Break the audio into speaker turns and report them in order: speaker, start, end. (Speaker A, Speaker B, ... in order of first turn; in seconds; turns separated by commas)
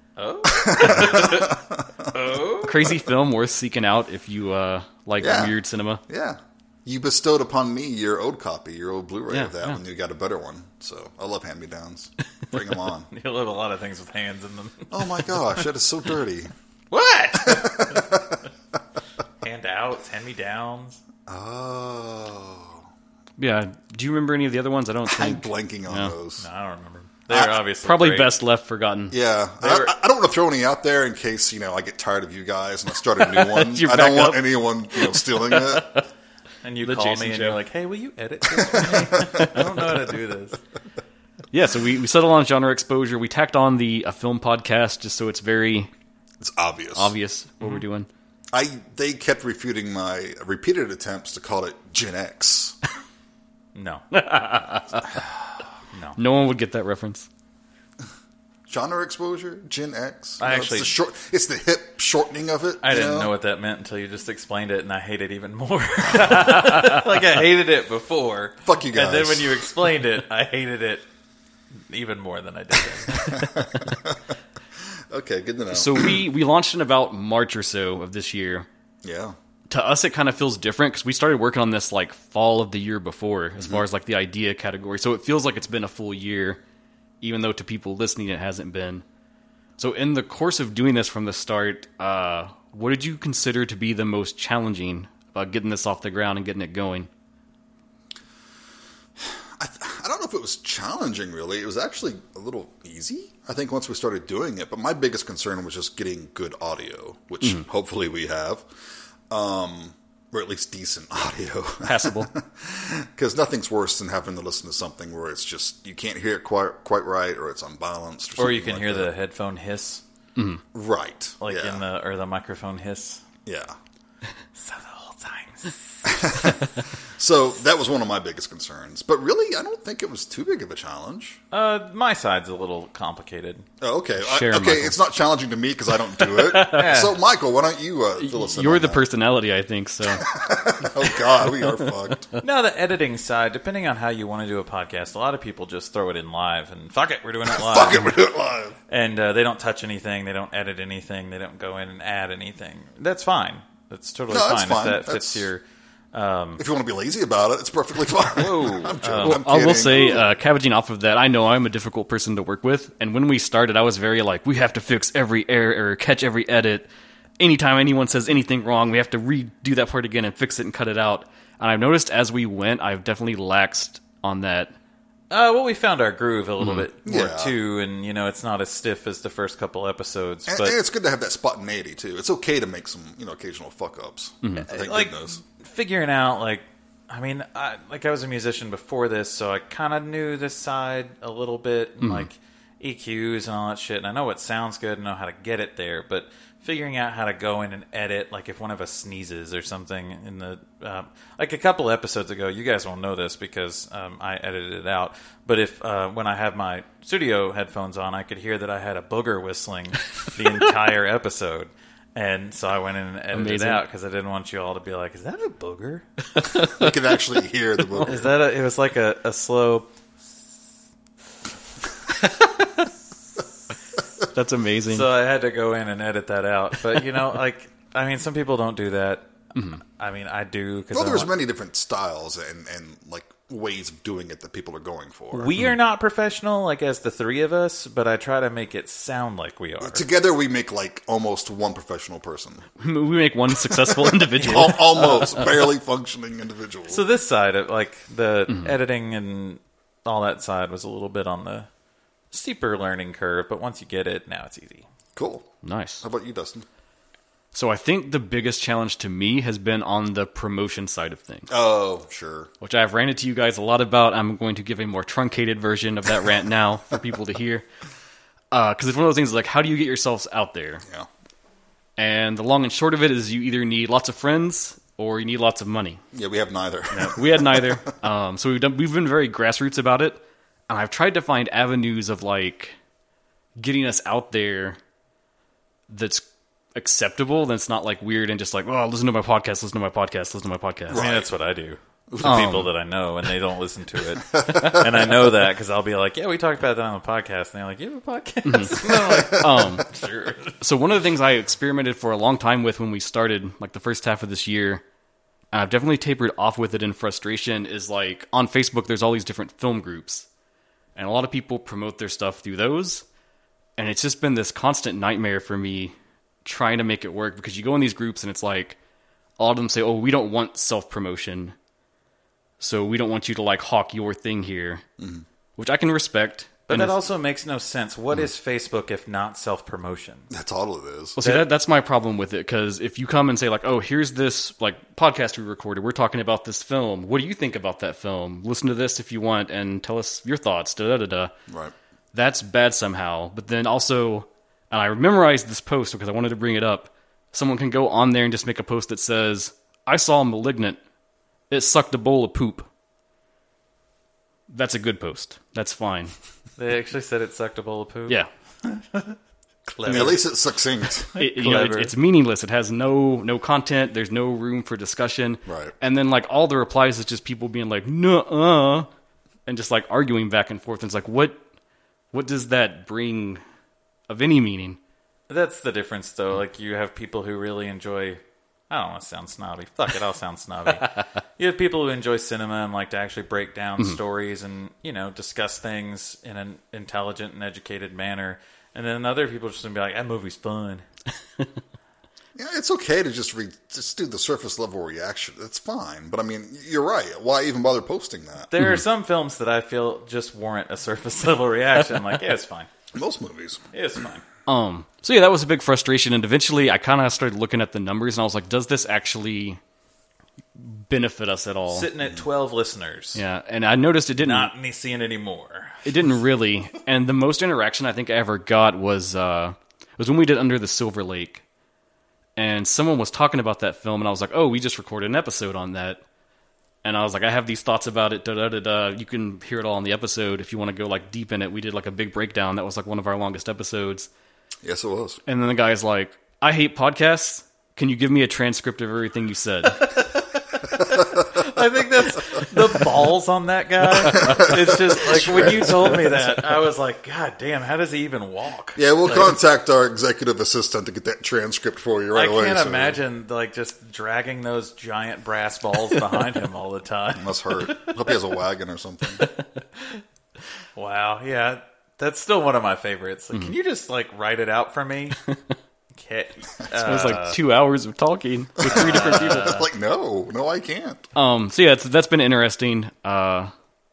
Speaker A: 0.2-2.9, Speaker B: 0.4-2.1, Speaker C: 2.6-6.0, Speaker B: 5.2-13.1, Speaker C: 9.3-9.8, Speaker A: 13.1-15.6, Speaker B: 14.9-16.5, Speaker A: 16.9-18.2, Speaker B: 17.4-18.4, Speaker A: 19.4-21.0, Speaker B: 21.3-22.9, Speaker C: 23.4-26.1, Speaker B: 25.1-26.4, Speaker A: 26.4-28.3, Speaker B: 27.3-27.6, Speaker C: 27.8-29.1, Speaker B: 29.1-36.0, Speaker A: 29.6-29.9, Speaker C: 33.2-35.8, Speaker A: 36.6-40.6, Speaker C: 36.8-37.6, Speaker B: 38.6-39.7, Speaker C: 41.5-45.9, Speaker B: 46.4-47.1, Speaker C: 47.0-48.1, Speaker B: 48.5-52.8, Speaker A: 53.7-54.0, Speaker C: 54.1-55.1, Speaker A: 55.9-56.2, Speaker C: 56.1-57.3, Speaker B: 58.7-63.3, Speaker A: 60.4-60.9, Speaker A: 62.8-71.0, Speaker B: 68.6-69.6, Speaker A: 71.9-73.5, Speaker B: 73.2-74.2, Speaker B: 75.1-76.2, Speaker C: 75.7-78.7, Speaker B: 79.0-79.3, Speaker C: 79.7-86.6, Speaker B: 83.6-83.8, Speaker C: 87.2-89.0, Speaker C: 89.8-97.1, Speaker B: 99.2-108.7, Speaker B: 109.3-119.1, Speaker C: 111.8-112.3, Speaker A: 118.4-120.0, Speaker C: 120.3-120.6, Speaker B: 120.7-121.8, Speaker A: 121.4-123.2, Speaker B: 123.4-123.7, Speaker A: 124.5-126.0, Speaker B: 126.0-131.4, Speaker A: 131.5-133.7, Speaker B: 133.8-139.0, Speaker C: 134.2-135.0, Speaker A: 136.2-137.2, Speaker C: 138.2-140.3, Speaker B: 140.1-142.3, Speaker A: 142.4-148.2, Speaker B: 147.4-148.8, Speaker A: 148.9-155.6, Speaker B: 154.3-155.4, Speaker A: 156.1-156.6, Speaker B: 156.6-160.4, Speaker A: 158.3-159.4, Speaker C: 159.2-174.7, Speaker A: 175.3-180.8, Speaker C: 176.6-176.9, Speaker B: 177.0-177.6, Speaker B: 180.5-185.4, Speaker A: 184.6-216.1, Speaker C: 192.0-192.3, Speaker C: 213.3-213.8, Speaker C: 216.3-216.9, Speaker B: 216.5-218.3, Speaker A: 218.1-219.9, Speaker C: 224.3-225.1, Speaker A: 224.9-231.3, Speaker C: 229.5-229.8, Speaker B: 230.9-235.5, Speaker A: 235.3-240.1, Speaker B: 239.8-242.6, Speaker C: 242.8-245.2, Speaker B: 243.6-247.0, Speaker A: 244.6-245.3, Speaker A: 246.9-251.7, Speaker A: 252.3-254.8, Speaker B: 255.2-255.5, Speaker C: 255.6-256.0, Speaker B: 256.0-256.6, Speaker C: 257.5-261.5, Speaker B: 261.5-262.5, Speaker C: 262.6-267.6, Speaker C: 268.5-270.8, Speaker C: 272.0-276.0, Speaker B: 276.1-277.9, Speaker C: 276.9-282.7, Speaker C: 283.6-284.8, Speaker C: 285.9-291.0, Speaker B: 290.9-291.3, Speaker A: 290.9-300.6, Speaker B: 292.1-292.6, Speaker C: 292.2-292.7, Speaker B: 294.3-294.9, Speaker C: 298.4-299.9, Speaker B: 298.8-299.7, Speaker C: 300.6-304.8, Speaker C: 305.5-310.2, Speaker C: 310.9-313.0, Speaker C: 313.8-318.8, Speaker C: 319.4-321.5, Speaker C: 322.6-324.8, Speaker B: 325.0-325.2, Speaker C: 325.6-326.9, Speaker A: 326.7-330.3, Speaker B: 330.3-331.2, Speaker C: 331.2-341.3, Speaker A: 331.2-331.5, Speaker B: 341.5-341.7, Speaker C: 342.1-350.8, Speaker C: 351.5-352.7, Speaker C: 354.5-356.1, Speaker A: 356.6-360.4, Speaker C: 359.9-360.2, Speaker B: 359.9-361.1, Speaker A: 360.9-361.9, Speaker C: 361.1-368.9, Speaker B: 365.4-365.7, Speaker C: 369.4-371.4, Speaker C: 372.1-373.4, Speaker C: 374.1-374.8, Speaker A: 375.3-390.8, Speaker B: 392.4-398.5, Speaker A: 398.5-402.7, Speaker B: 402.9-403.6, Speaker A: 403.7-404.2, Speaker C: 404.5-409.6, Speaker C: 410.6-411.9, Speaker A: 411.7-413.2, Speaker C: 413.1-414.5, Speaker A: 414.2-415.8, Speaker C: 415.8-421.4, Speaker C: 422.4-426.0, Speaker C: 426.8-434.1, Speaker B: 434.6-435.2, Speaker C: 435.2-440.0, Speaker A: 439.9-449.4, Speaker B: 444.1-446.1, Speaker B: 448.8-453.0, Speaker A: 452.1-458.1, Speaker B: 457.1-459.3, Speaker A: 460.8-465.2, Speaker A: 465.9-467.4, Speaker C: 466.7-469.6, Speaker B: 468.6-471.1, Speaker A: 468.7-469.6, Speaker C: 471.1-473.5